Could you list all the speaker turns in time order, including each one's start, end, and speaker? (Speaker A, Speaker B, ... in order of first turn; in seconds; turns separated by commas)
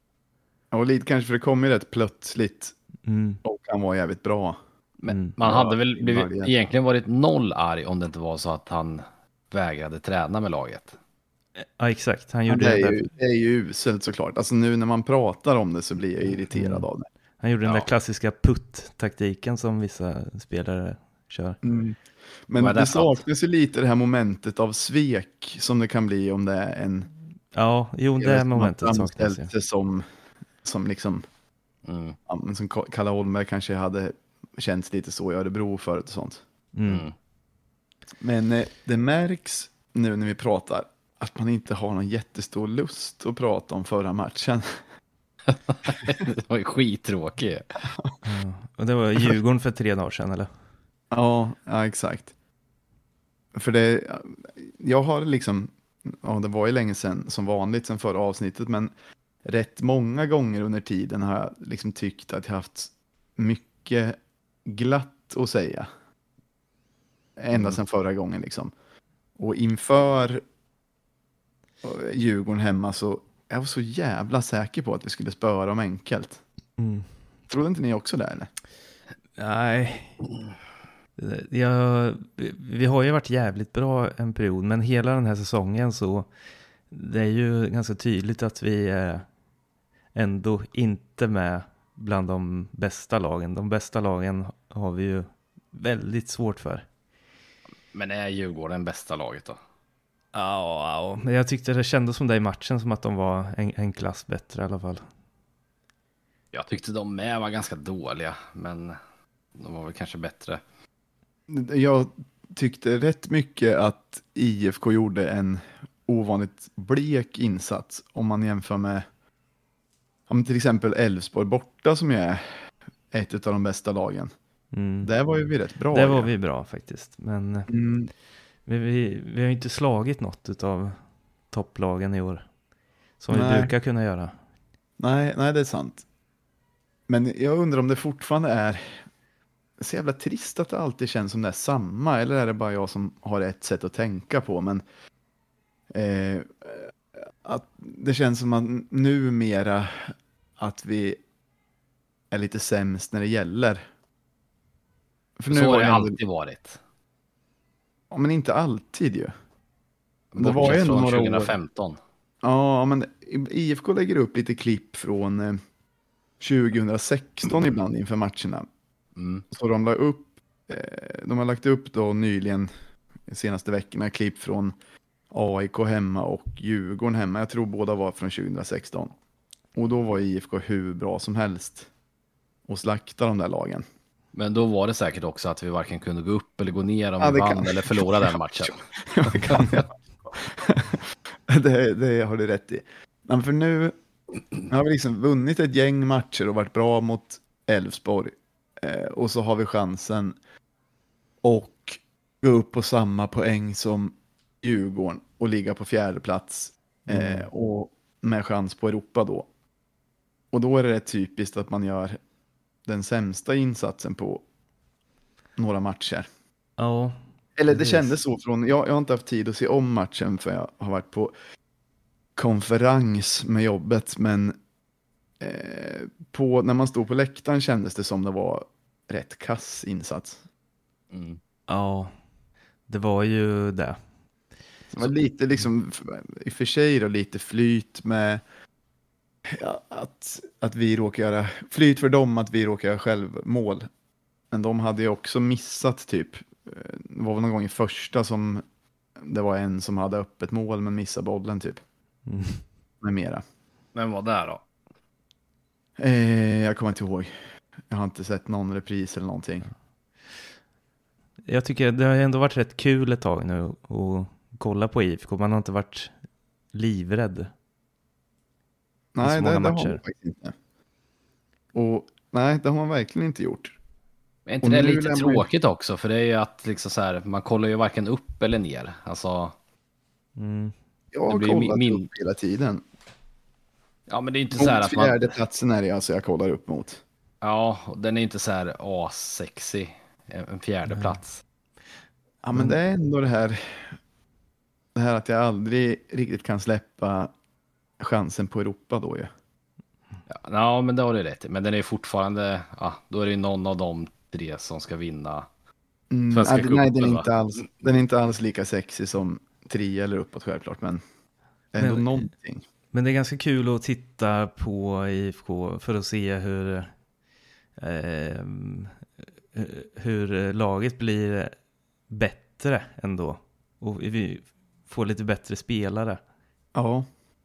Speaker A: 0.7-2.7, Speaker B: 3.0-3.4, Speaker A: 3.4-4.6, Speaker C: 5.0-10.9, Speaker B: 5.1-5.3, Speaker A: 5.4-6.5, Speaker B: 11.6-13.1, Speaker A: 12.5-17.1, Speaker B: 16.5-16.8, Speaker B: 17.4-21.6, Speaker A: 21.6-27.1, Speaker C: 22.6-23.2, Speaker B: 27.5-29.5, Speaker A: 28.2-30.0, Speaker A: 30.6-31.2, Speaker C: 31.8-32.1, Speaker A: 32.3-36.4, Speaker B: 36.7-37.0, Speaker C: 36.9-37.1, Speaker A: 38.2-44.8, Speaker C: 45.5-47.6, Speaker B: 48.2-50.5, Speaker A: 51.1-52.3, Speaker A: 53.5-58.9, Speaker A: 59.4-65.9, Speaker A: 67.4-68.7, Speaker A: 69.4-70.4, Speaker A: 71.8-76.4, Speaker B: 76.8-77.1, Speaker A: 77.5-78.5, Speaker B: 79.4-80.2, Speaker B: 81.2-86.3, Speaker B: 86.9-89.3, Speaker B: 90.1-96.8, Speaker C: 97.9-99.6, Speaker B: 100.3-105.0, Speaker C: 106.5-109.0, Speaker C: 109.5-110.6, Speaker A: 111.5-119.0, Speaker A: 120.3-124.3, Speaker B: 124.7-125.1, Speaker A: 125.0-126.3, Speaker B: 125.9-127.7, Speaker A: 127.7-128.1, Speaker B: 128.7-132.5, Speaker B: 133.2-134.3, Speaker A: 133.3-133.7, Speaker A: 135.0-136.0, Speaker A: 137.1-139.0, Speaker A: 139.8-144.8, Speaker A: 145.9-151.2, Speaker A: 152.3-153.8, Speaker A: 155.4-156.2, Speaker C: 155.5-156.8, Speaker A: 158.1-159.3, Speaker C: 160.3-162.0, Speaker A: 160.3-161.5, Speaker A: 162.4-165.6, Speaker A: 166.4-168.7, Speaker C: 169.2-169.4, Speaker A: 169.5-172.7, Speaker A: 173.3-174.7, Speaker A: 175.3-179.1, Speaker A: 179.7-181.9, Speaker A: 182.7-183.8, Speaker C: 184.3-189.8, Speaker A: 187.2-193.9, Speaker A: 194.7-200.4, Speaker A: 201.4-209.5, Speaker B: 207.1-207.5, Speaker A: 210.5-212.2, Speaker A: 212.8-214.4, Speaker A: 215.6-216.2, Speaker B: 216.8-217.2, Speaker A: 217.6-221.3, Speaker B: 217.7-218.1, Speaker A: 222.3-224.6, Speaker A: 225.4-230.4, Speaker C: 231.1-231.4, Speaker B: 231.7-232.1, Speaker B: 232.9-234.0, Speaker A: 234.9-238.4, Speaker A: 239.4-243.9, Speaker A: 244.5-248.6, Speaker A: 249.2-251.8, Speaker B: 252.3-252.6, Speaker A: 253.0-253.4, Speaker C: 253.9-254.6, Speaker A: 256.0-257.3, Speaker A: 257.9-259.7, Speaker B: 261.5-266.1, Speaker B: 266.7-267.5, Speaker A: 269.1-270.5, Speaker B: 269.2-270.0, Speaker A: 271.7-273.8, Speaker C: 274.4-279.5, Speaker A: 274.6-275.5, Speaker B: 280.4-280.7, Speaker A: 281.1-282.8, Speaker C: 281.3-282.1, Speaker C: 284.1-285.3, Speaker A: 284.6-287.0, Speaker C: 287.4-291.4, Speaker B: 290.9-291.2, Speaker A: 292.4-294.0, Speaker A: 294.9-297.3, Speaker A: 298.0-299.3, Speaker C: 300.3-305.5, Speaker A: 306.1-311.0, Speaker C: 306.3-307.6, Speaker A: 311.7-312.6, Speaker B: 311.8-312.3, Speaker B: 312.9-316.9, Speaker B: 317.8-319.0, Speaker B: 319.5-321.5, Speaker B: 322.1-326.2, Speaker A: 326.7-327.1